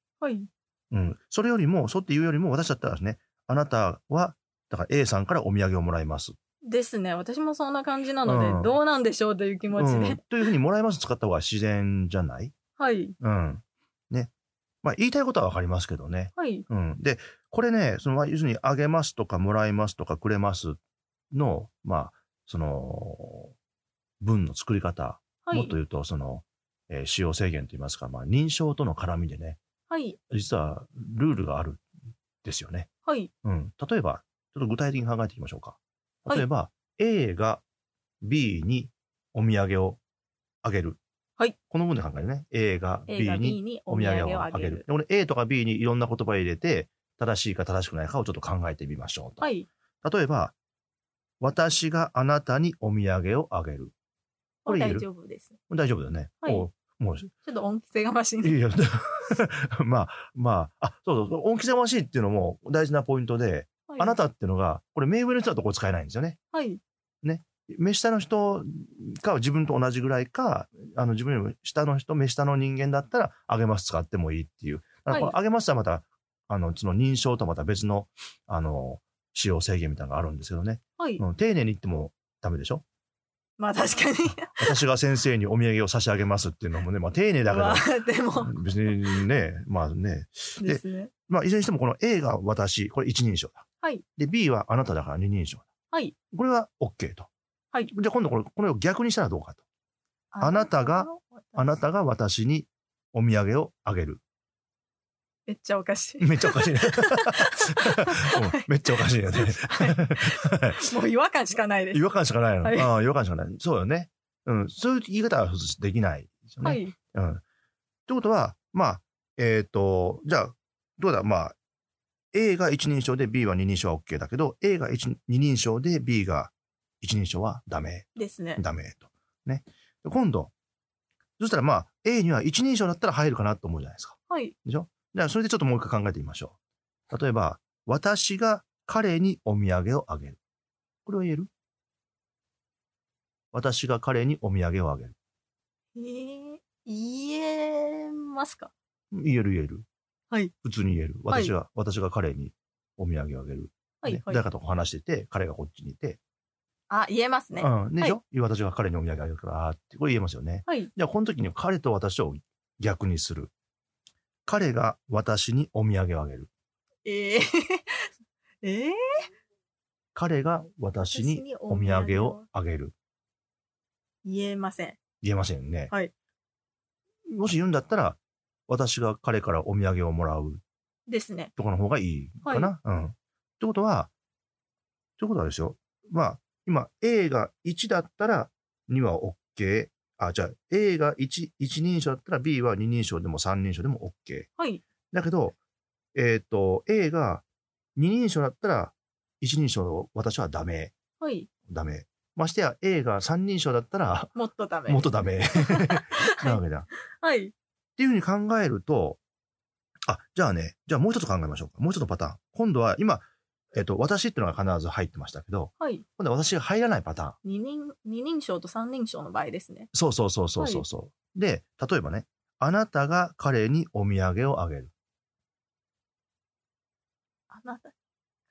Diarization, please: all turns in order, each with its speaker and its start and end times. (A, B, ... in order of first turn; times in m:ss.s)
0:00.2-0:00.5 A
0:00.9-0:06.3 B
0:06.6-0:10.3 A
0:08.2-0:08.8 B
0:09.7-0:12.5 B
0:12.8-0:13.1 A
0:13.2-0:14.3 B
0:14.8-0:20.8 B
0:16.4-0:16.6 A
0:21.3-0:23.5 B
0:24.2-0:29.6 B
0:25.4-0:25.8 A
0:29.9-0:30.2 A
0:30.3-0:31.8 B
0:32.4-0:32.9 B
0:33.0-0:33.3 A
0:33.4-0:37.6 B
0:38.2-0:40.0 B
0:40.6-0:41.0 B
0:41.7-0:49.5 B
0:43.1-0:44.8 A
0:49.4-0:49.7 A
0:50.0-0:50.6 B
0:51.4-0:53.9 B
0:54.6-0:55.6 A
0:54.6-0:55.1 B
0:55.7-0:57.3 B
0:57.4-0:58.6 A
0:58.4-1:06.4 B
1:03.9-1:04.2 A
1:06.5-1:06.8 A
1:07.2-1:22.8 B
1:15.1-1:15.3 A
1:21.0-1:21.2 A
1:23.6-1:24.8 A
1:24.5-1:33.6 B
1:27.4-1:29.2 A
1:30.6-1:31.1 A
1:34.2-1:35.7 B
1:36.3-1:37.3 B
1:37.9-1:39.6 B
1:40.3-1:41.7 A
1:40.4-1:44.2 B
1:45.5-1:48.7 A
1:46.2-1:50.8 B
1:49.3-1:52.9 A
1:51.9-1:57.4 B
1:56.6-1:56.9 A
1:58.1-2:01.5 B
2:02.3-2:10.5 B
2:08.1-2:08.6 A
2:11.4-2:16.6 B
2:14.3-2:14.5 A
2:17.1-2:20.4 B
2:21.0-2:21.5 B
2:23.5-2:25.1 B
2:25.9-2:28.7 A
2:29.1-2:29.8 B
2:30.6-2:36.2 B
2:31.3-2:31.5 A
2:34.0-2:34.4 A
2:36.9-2:38.2 A
2:37.6-2:43.5 B
2:40.6-2:40.9 A
2:44.4-2:46.5 B
2:47.0-2:48.0 A
2:48.6-2:49.2 A
2:50.1-2:52.9 B
2:51.1-2:52.4 A
2:54.2-2:55.0 A
2:55.2-2:55.9 B
2:57.3-3:00.6 B
3:01.1-3:01.5 A
3:01.6-3:04.1 B
3:02.4-3:02.7 A
3:05.2-3:14.5 B
3:14.6-3:14.8 A
3:15.1-3:15.6 B
3:16.1-3:17.4 B
3:18.0-3:20.9 B
3:21.2-3:21.5 A
3:21.7-3:24.3 B
3:24.3-3:26.6 A
3:24.9-3:26.9 B
3:27.1-3:27.5 A
3:28.0-3:29.2 B
3:30.1-3:37.4 B
3:35.8-3:36.0 A
3:37.4-3:39.9 A
3:39.9-3:44.9 B
3:40.5-3:40.8 A
3:47.5-3:47.9 A